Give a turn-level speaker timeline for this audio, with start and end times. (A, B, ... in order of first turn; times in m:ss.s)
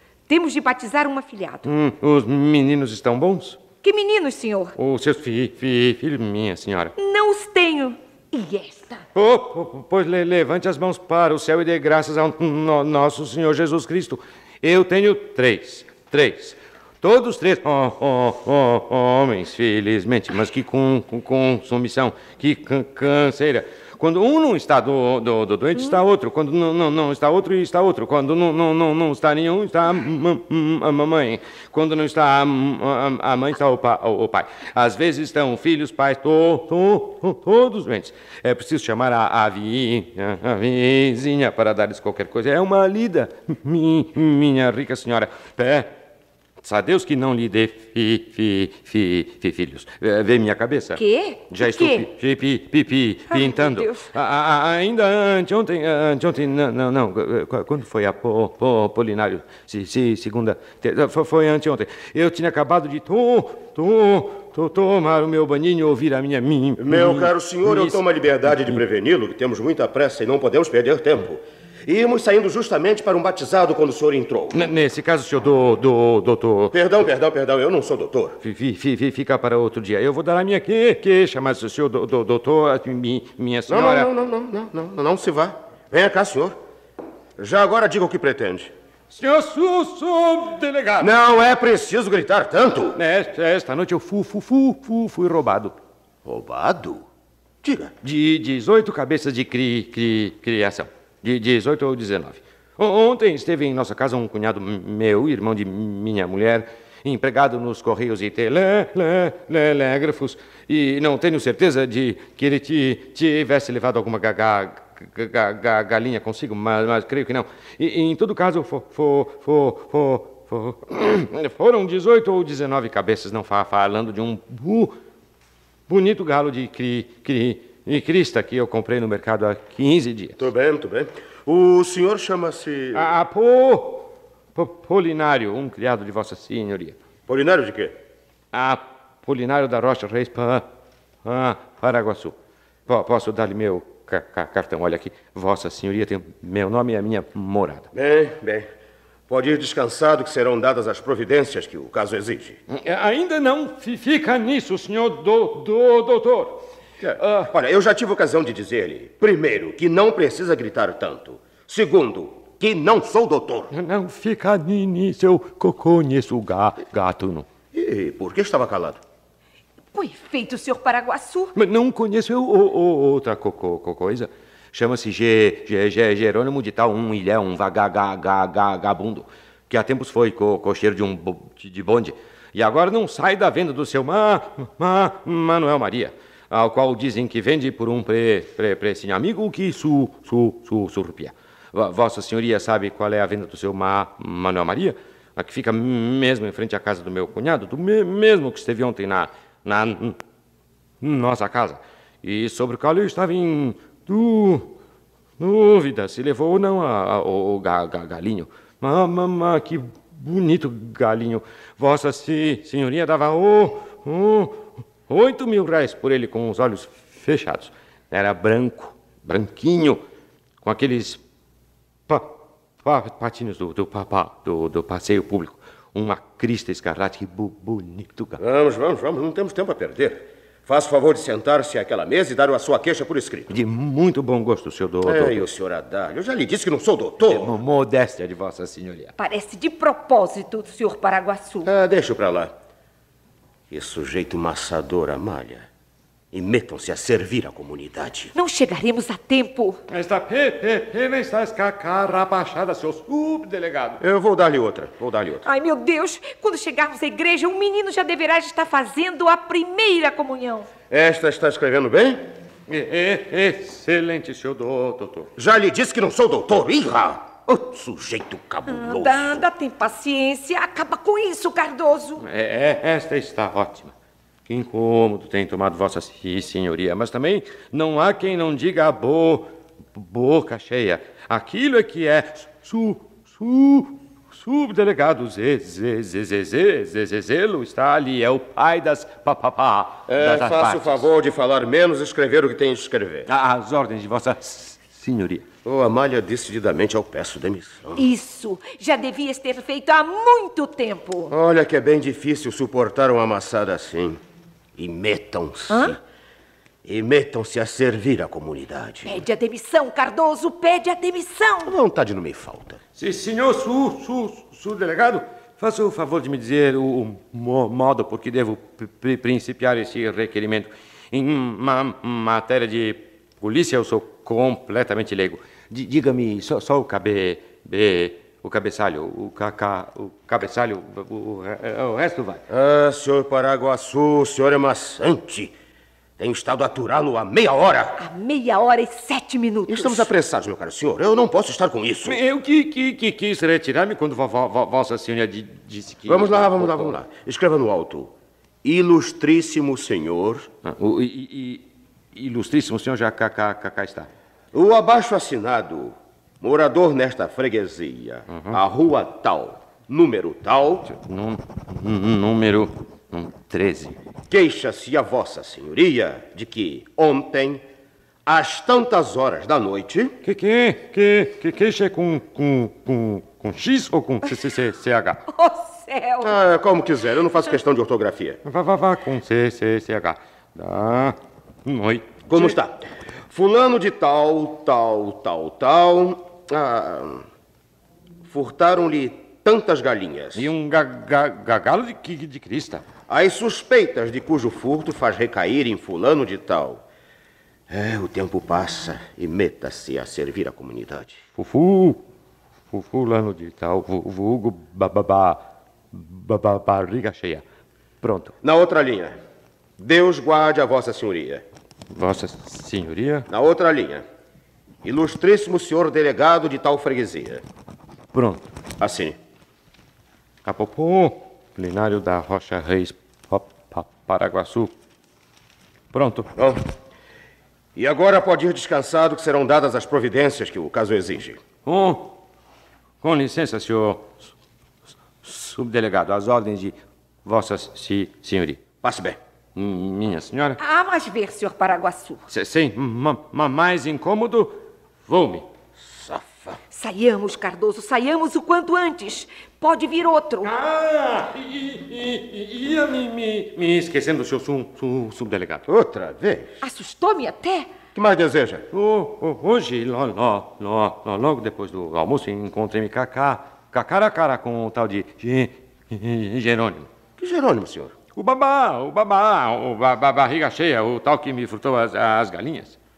0:00.3-0:01.7 A
0:01.6-0:03.6 B
0:03.8-0:04.8 A
0:04.8-0:06.9 B
0:07.0-0:09.0 A
0:09.2-0:45.9 B
0:46.6-1:08.0 B
0:50.9-0:52.1 A
0:53.3-0:54.1 A
1:06.8-1:14.6 C
1:14.5-1:16.7 B
1:16.7-1:18.4 C
1:18.4-1:24.1 B
1:23.7-1:26.6 C
1:27.4-1:28.7 C
1:29.1-1:31.1 B
1:31.0-1:33.0 C
1:33.0-1:35.8 B
1:36.2-1:37.0 C
1:37.6-1:37.9 C
1:38.0-2:05.0 B
2:05.9-2:10.4 B
2:10.4-2:13.1 C
2:13.0-2:17.0 B
2:17.3-2:18.0 C
2:18.5-2:20.7 B
2:21.2-2:22.4 B
2:22.9-2:27.9 B
2:27.9-2:28.7 C
2:29.3-2:32.6 C
2:32.7-2:36.6 B
2:37.0-2:43.7 C
2:37.2-2:37.5 B
2:43.7-2:47.5 B
2:47.7-2:49.0 C
2:49.9-2:51.5 A
2:51.6-3:20.2 B
3:21.0-3:24.7 B
3:25.4-3:40.0 B
3:40.6-3:41.2 B
3:42.8-3:48.4 B
3:48.4-3:53.5 C
3:53.5-3:55.4 B
3:55.0-3:57.6 C
3:57.3-3:59.1 B
3:59.2-4:01.7 A
4:01.6-4:02.5 C
4:03.7-4:05.7 C
4:06.3-4:08.3 C
4:08.4-4:09.8 A
4:09.9-4:14.0 B
4:14.0-4:15.4 C
4:15.4-4:20.7 A
4:20.9-4:22.3 C
4:22.7-4:25.3 B
4:25.4-4:29.4 C
4:28.7-4:32.2 A
4:32.2-4:33.9 B
4:34.5-4:51.1 B
4:50.1-4:53.3 C
4:53.3-4:55.4 B
4:55.6-4:58.0 C
4:58.0-5:01.3 A
5:01.3-5:04.2 C
5:04.8-5:06.0 C
5:05.7-5:06.0 A
5:06.8-5:09.2 C
5:09.0-5:11.7 A
5:11.6-5:12.8 C
5:13.0-5:32.4 B
5:32.5-5:35.5 C
5:36.2-5:38.0 C
5:38.0-5:40.1 A
5:39.7-5:42.2 C
5:42.1-5:46.9 B
5:46.0-5:48.1 C
5:48.6-5:50.5 C
5:50.7-5:51.6 B
5:52.2-5:54.1 B
5:54.5-6:00.9 C
6:01.0-6:04.0 B
6:04.3-6:07.6 C
6:08.3-6:10.1 C
6:10.2-6:15.2 B
6:15.3-6:16.4 A
6:16.2-6:18.4 C
6:18.5-6:21.1 B
6:21.7-6:22.5 B
6:22.3-6:27.2 C
6:28.3-6:30.5 C
6:30.4-6:32.8 B
6:33.1-6:36.8 C
6:37.7-6:41.2 C
6:41.4-6:42.0 B
6:42.7-6:45.4 B
6:45.9-6:47.4 B
6:48.0-6:48.3 B
6:48.4-6:49.2 C
6:49.8-6:51.4 C
6:52.0-6:53.2 B
6:53.3-6:54.0 C
6:54.8-6:57.4 C
6:58.1-6:58.4 B
6:58.8-6:59.2 C
7:00.5-7:04.7 B
7:05.9-7:06.3 B
7:07.8-7:11.4 C
7:11.7-7:12.0 B
7:13.0-7:14.1 B
7:15.2-7:16.7 B
7:17.3-7:18.6 B
7:18.8-7:19.2 C
7:19.6-7:20.6 B
7:20.6-7:22.2 A
7:22.3-7:24.6 B
7:25.1-7:25.4 B
7:25.8-7:26.6 C
7:26.7-7:30.5 A
7:30.4-7:35.6 B
7:35.7-7:36.5 C
7:36.6-7:37.7 A
7:37.9-7:38.6 C
7:38.7-7:46.9 B
7:47.2-7:47.9 C
7:48.2-7:52.7 B